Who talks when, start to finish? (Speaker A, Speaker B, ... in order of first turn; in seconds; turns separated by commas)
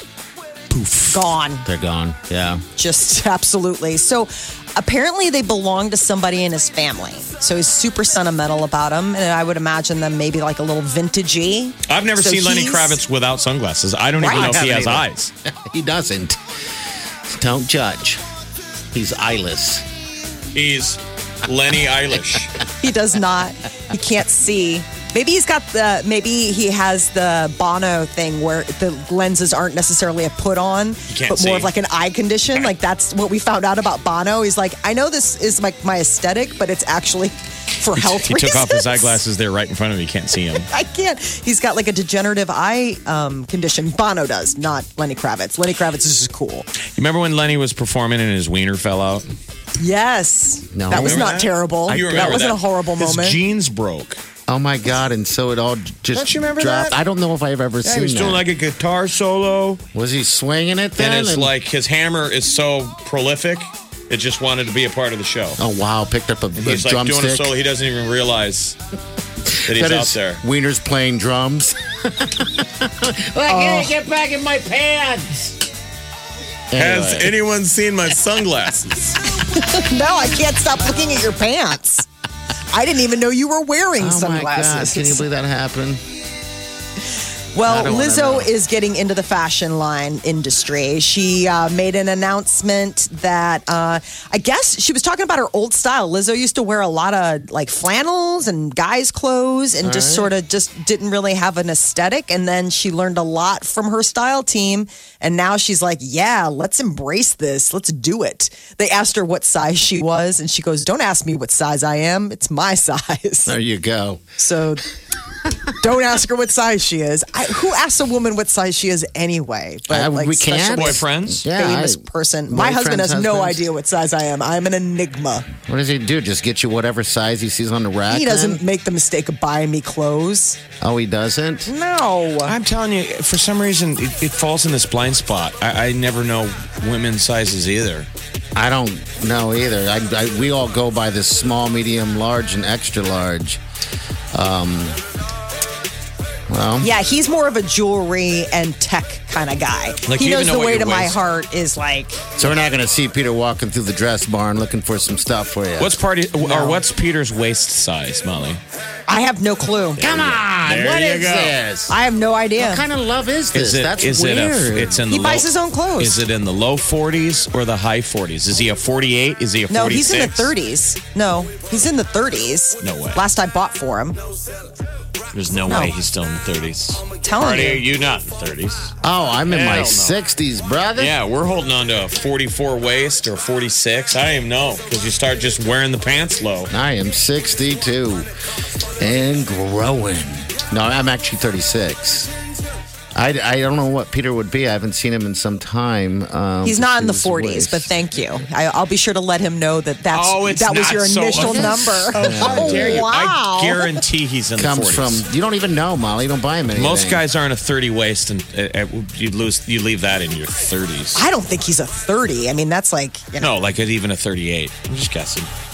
Speaker A: 0.7-1.2, Speaker B: 1.1-1.6, Speaker C: 1.6-2.6, Speaker B: 2.8-13.0, Speaker A: 11.9-15.3, Speaker C: 14.2-16.4, Speaker B: 14.2-14.6, Speaker C: 17.3-18.2, Speaker C: 18.9-19.8, Speaker A: 20.5-22.6, Speaker B: 22.8-39.2, Speaker A: 31.1-31.7, Speaker A: 37.9-40.7, Speaker B: 40.7-46.7, Speaker A: 47.0-49.2, Speaker B: 49.8-53.4, Speaker C: 50.7-51.3, Speaker A: 50.9-54.2, Speaker C: 51.9-52.4, Speaker C: 54.5-58.4, Speaker A: 56.1-57.0, Speaker A: 57.8-59.8, Speaker C: 59.9-61.5, Speaker A: 61.0-65.6, Speaker C: 65.6-67.5, Speaker A: 66.5-68.8, Speaker A: 69.6-70.4, Speaker C: 69.7-75.6, Speaker B: 73.5-73.9, Speaker C: 76.7-77.3, Speaker A: 76.7-79.2, Speaker B: 79.4-82.1, Speaker B: 82.7-85.2, Speaker C: 84.0-86.0, Speaker B: 87.5-113.5, Speaker C: 87.6-88.5, Speaker C: 99.8-100.3, Speaker C: 113.5-114.2, Speaker B: 114.4-114.8, Speaker B: 115.7-125.5, Speaker C: 119.9-123.6, Speaker A: 120.7-121.4, Speaker C: 125.6-128.6, Speaker B: 128.1-130.6, Speaker C: 130.8-131.7, Speaker B: 131.7-132.5, Speaker A: 132.4-138.1, Speaker C: 138.5-143.6, Speaker C: 144.3-145.0, Speaker C: 146.5-146.9, Speaker B: 146.8-152.2, Speaker A: 150.1-151.2, Speaker C: 152.4-156.0, Speaker A: 155.8-158.6, Speaker B: 156.4-156.8, Speaker B: 159.1-160.0, Speaker A: 160.0-161.6, Speaker C: 160.0-162.0, Speaker B: 161.9-162.9, Speaker C: 162.6-165.0, Speaker A: 163.5-165.4, Speaker B: 165.1-166.2, Speaker A: 166.0-170.5, Speaker B: 169.7-174.2, Speaker A: 172.8-173.2, Speaker A: 175.3-178.9, Speaker B: 175.7-175.9, Speaker B: 177.2-177.8, Speaker C: 179.0-181.1, Speaker A: 179.5-180.2, Speaker A: 180.9-186.7, Speaker C: 186.7-188.3, Speaker C: 189.0-192.3, Speaker C: 193.1-197.9, Speaker B: 196.6-203.9, Speaker A: 200.1-205.2, Speaker C: 201.3-203.1, Speaker C: 204.6-207.2, Speaker A: 206.7-211.2, Speaker B: 211.1-213.5, Speaker A: 213.4-215.5